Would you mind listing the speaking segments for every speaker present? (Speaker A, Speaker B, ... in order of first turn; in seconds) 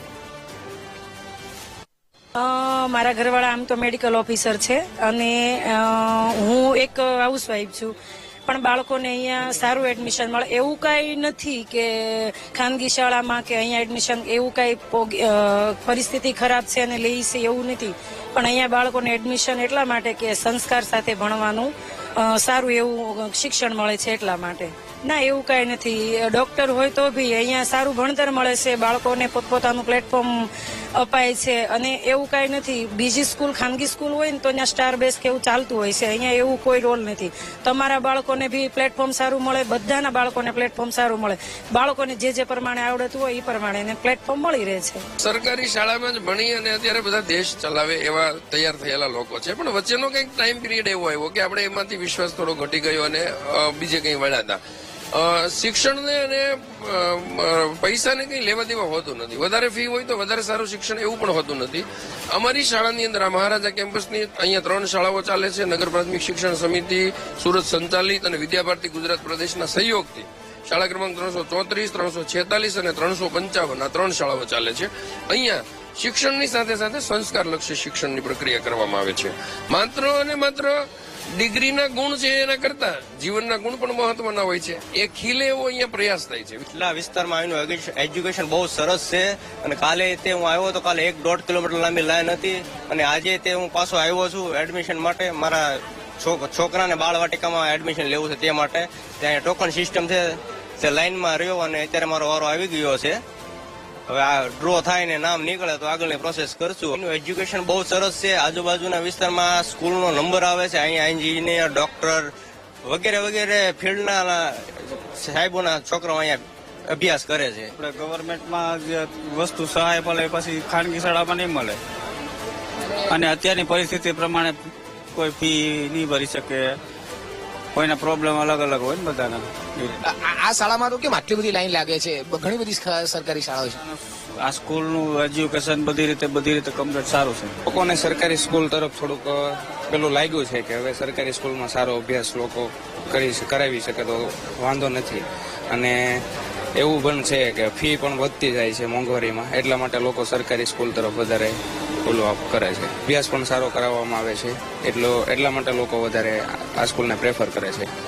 Speaker A: 2.4-7.9, 8.5-30.4, 31.0-45.0
Speaker B: 45.2-54.6, 55.1-86.6
Speaker C: 86.7-103.2, 104.1-112.3, 112.8-117.7
Speaker D: 117.8-121.8, 123.1-124.6, 125.1-126.8, 127.7-130.0, 133.9-137.6
Speaker E: 130.1-133.8
Speaker F: 137.7-146.2, 146.8-157.9